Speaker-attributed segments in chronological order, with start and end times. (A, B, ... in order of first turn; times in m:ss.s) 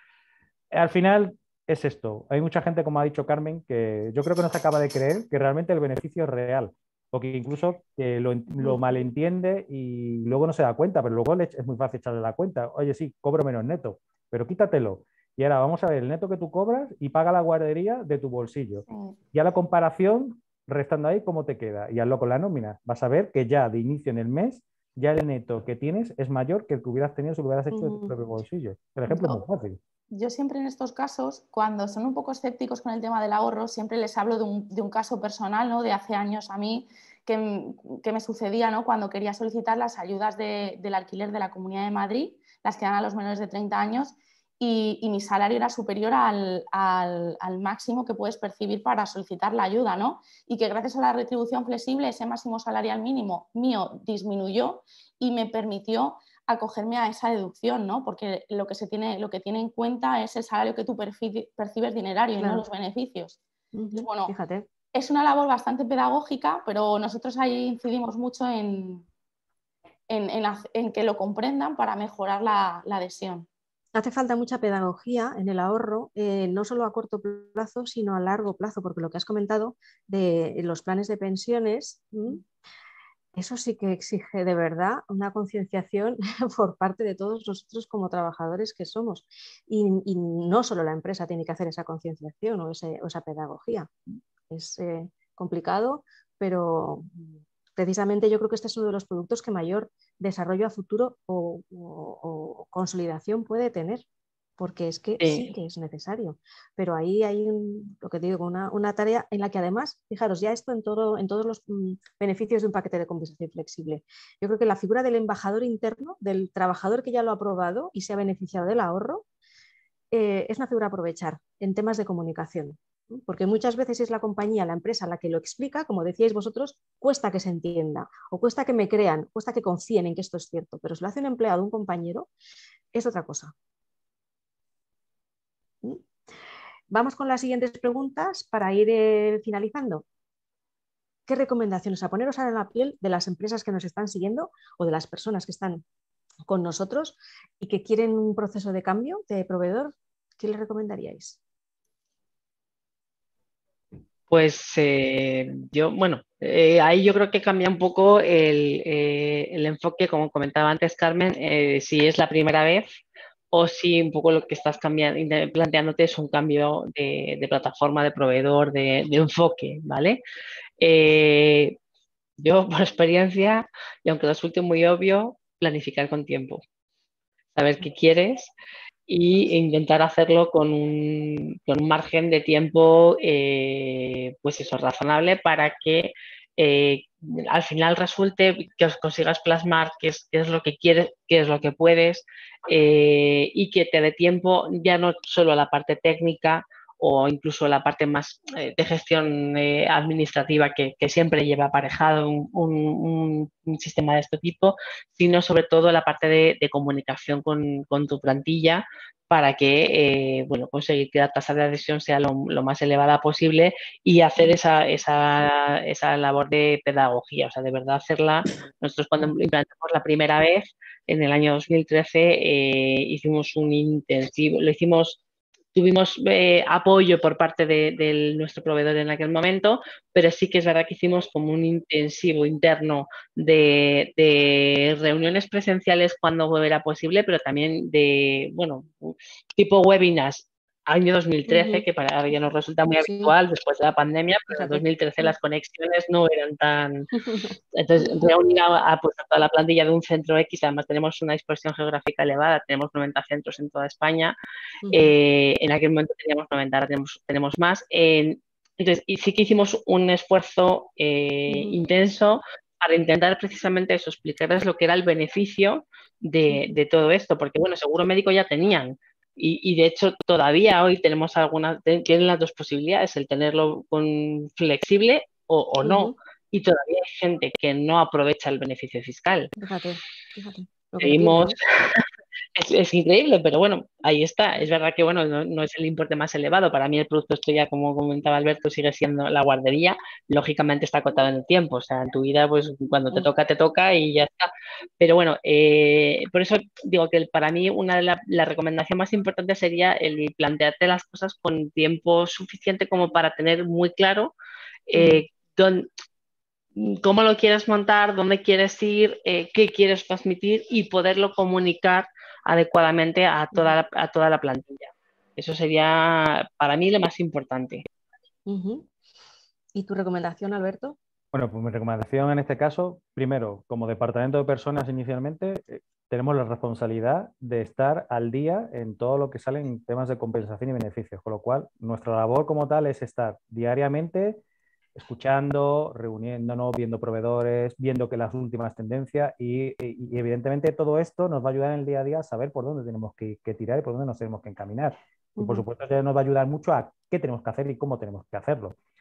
0:00.7-0:29.8 A
0:18.9-0:19.2 B
0:27.7-0:28.1 C
0:29.1-0:29.4 B
0:30.1-1:03.4 B
1:02.4-1:02.6 C
1:03.7-1:04.7 C
1:03.9-1:04.3 B
1:04.9-1:09.1 B
1:10.1-1:13.5 B
1:13.9-1:22.4 C
1:23.3-1:33.9 C
1:34.5-1:44.0 C
1:44.6-1:59.2 C
1:45.2-1:45.5 D
2:00.1-2:12.3 C
2:12.9-2:13.5 C
2:16.9-2:20.0 C
2:21.3-2:25.8 C
2:26.5-2:31.4 C
2:34.3-2:42.9 D
2:43.5-2:50.2 D
2:50.8-2:51.8 D
2:52.4-2:56.6 D
2:57.6-2:58.5 D
2:59.1-3:45.2 D
3:45.7-4:07.1 D
4:01.5-4:01.8 C
4:03.0-4:03.3 C
4:04.5-4:04.8 C
4:07.1-4:08.1 C
4:07.7-4:14.3 D
4:14.8-4:15.1 C
4:14.9-4:39.5 D
4:21.5-4:21.8 C
4:26.5-4:26.8 C
4:35.8-4:36.1 C
4:39.6-4:41.6 C
4:41.0-4:42.0 D
4:42.6-5:04.3 D
5:04.9-5:05.9 D
5:04.9-5:05.2 C
5:06.8-5:17.8 D
5:18.5-5:18.9 C
5:19.7-5:21.0 C
5:21.3-5:34.4 A
5:34.9-5:48.8 A
5:45.4-5:45.6 C